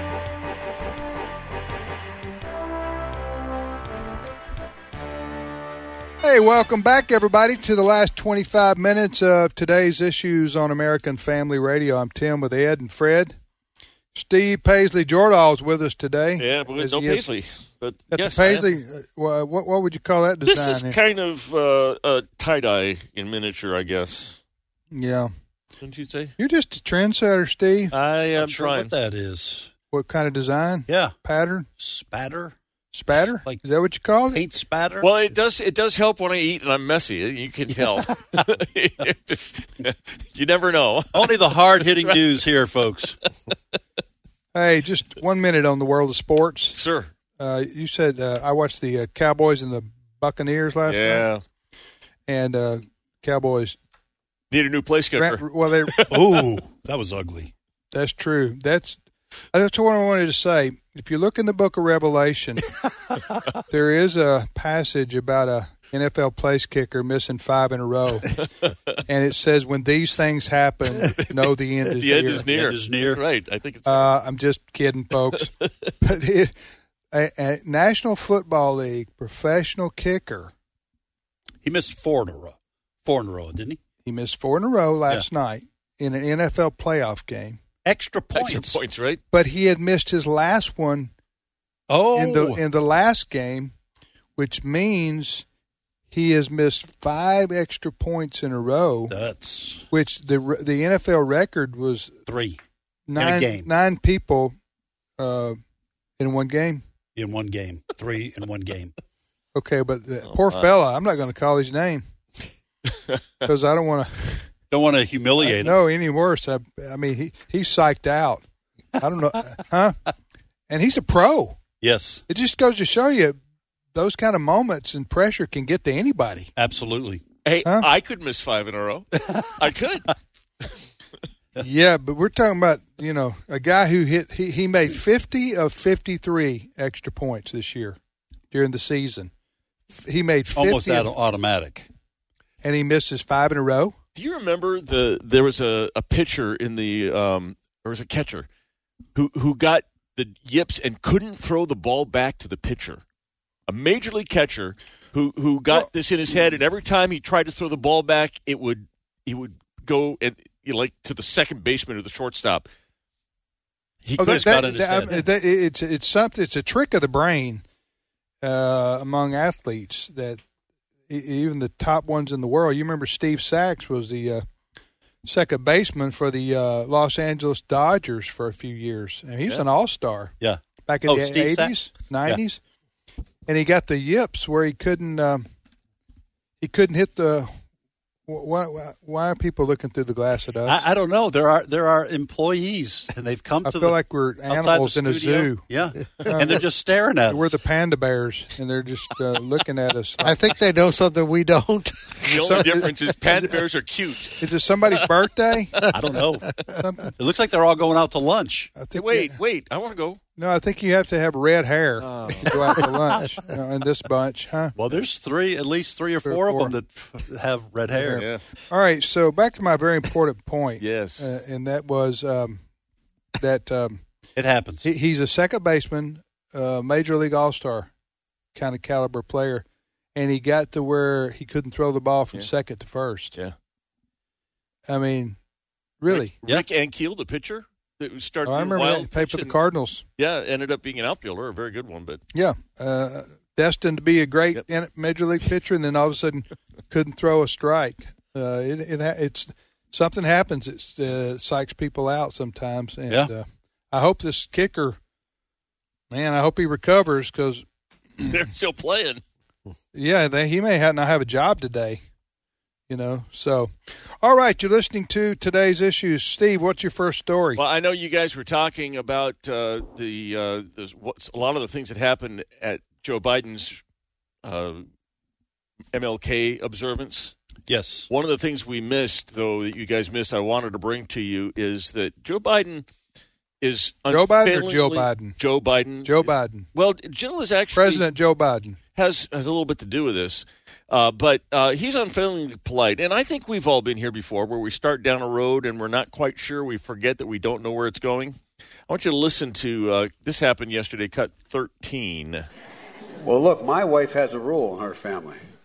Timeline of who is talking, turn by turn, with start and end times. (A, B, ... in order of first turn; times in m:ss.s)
0:06.2-0:13.4 A
0:14.1-0:17.3 A
0:16.4-0:18.7 B
0:18.1-0:21.0 A
0:20.4-0:24.4 B
0:24.9-0:25.3 A
0:25.8-0:26.3 B
0:26.4-0:27.9 A
0:27.9-0:28.9 B
0:28.4-0:29.7 C
0:29.9-0:31.7 A
0:30.9-0:31.1 C
0:31.8-0:32.5 C
0:32.9-0:34.4 A
0:34.3-0:35.1 C
0:35.0-0:42.2 B
0:37.7-0:38.0 C
0:41.1-0:43.2 C
0:44.5-0:46.8 A
0:46.7-0:47.1 B
0:47.4-0:51.3 A
0:50.9-0:51.4 B
0:52.3-0:53.8 A
0:54.5-0:56.4 B
0:55.2-0:56.0 A
0:56.1-0:57.5 C
0:57.9-0:59.0 A
0:59.5-1:02.7 A
1:03.7-1:08.4 A
1:09.1-1:12.4 A
1:10.9-1:14.1 B
1:12.5-1:13.2 C
1:13.8-1:16.5 A
1:15.4-1:15.7 B
1:17.1-1:20.5 A
1:21.6-1:23.8 C
1:24.0-1:27.6 A
1:27.8-1:28.8 C
1:28.3-1:29.2 B
1:29.3-1:31.1 A
1:31.9-1:32.6 C
1:32.1-1:33.7 A
1:34.4-1:35.4 A
1:36.1-1:39.1 A
1:39.1-1:39.8 C
1:39.9-1:42.2 A
1:42.3-1:42.6 C
1:43.1-1:44.6 A
1:43.2-1:43.7 C
1:45.2-1:45.6 A
1:46.2-1:46.8 A
1:47.2-1:48.9 C
1:49.5-1:52.0 A
1:50.3-1:50.7 B
1:53.4-1:54.5 A
1:54.7-1:55.8 C
1:55.4-1:58.4 A
1:59.0-2:00.0 A
2:00.7-2:01.6 A
2:01.8-2:02.2 C
2:02.3-2:03.4 A
2:03.9-2:06.5 A
2:06.6-2:07.2 C
2:07.4-2:10.1 B
2:11.6-2:18.0 A
2:18.5-2:19.3 A
2:20.0-2:21.1 A
2:20.6-2:21.9 C
2:22.6-2:23.9 A
2:24.2-2:28.5 B
2:29.1-2:33.0 B
2:33.7-2:42.6 B
2:44.0-2:44.6 B
2:44.2-2:45.2 C
2:44.2-2:47.6 A
2:48.4-2:50.4 A
2:51.1-2:54.4 A
2:55.2-3:00.3 A
3:00.4-3:01.7 C
3:00.9-3:02.6 A
3:03.5-3:05.4 A
3:06.6-3:07.5 A
3:08.3-3:10.8 A
3:10.6-3:17.5 C
3:13.6-3:15.6 A
3:16.2-3:16.6 A
3:17.3-3:20.3 A
3:20.2-3:22.9 D
3:22.2-3:24.4 B
3:22.4-3:22.9 A
3:24.4-3:25.8 A
3:25.9-3:26.6 C
3:26.8-3:27.1 A
3:27.2-3:28.7 C
3:28.8-3:29.4 A
3:28.9-3:30.2 B
3:30.4-3:34.7 A
3:32.0-3:32.8 B
3:34.7-3:38.2 C
3:36.2-3:36.7 A
3:37.9-3:42.6 A
3:38.1-3:38.4 B
3:40.8-3:41.3 B
3:43.4-3:44.0 A
3:44.4-3:44.9 C
3:44.8-3:47.9 A
3:48.5-3:53.4 A
3:54.9-3:55.4 A
3:56.0-3:56.3 A
3:56.1-3:59.6 B
3:58.4-4:00.0 A
4:00.2-4:02.2 B
4:02.3-4:15.0 A
4:16.1-4:17.6 A
4:18.3-4:19.2 B
4:19.9-4:22.0 A
4:22.9-4:27.6 A
4:27.6-4:33.8 B
4:34.4-4:34.8 B
4:35.9-4:37.3 B
4:37.7-4:38.1 C
4:38.1-4:42.9 B
4:43.6-4:48.0 B
4:44.1-4:45.4 A
4:46.0-4:46.7 A
4:47.8-4:48.8 A
4:48.9-4:58.4 B
4:58.9-5:02.4 B
5:03.2-5:05.4 E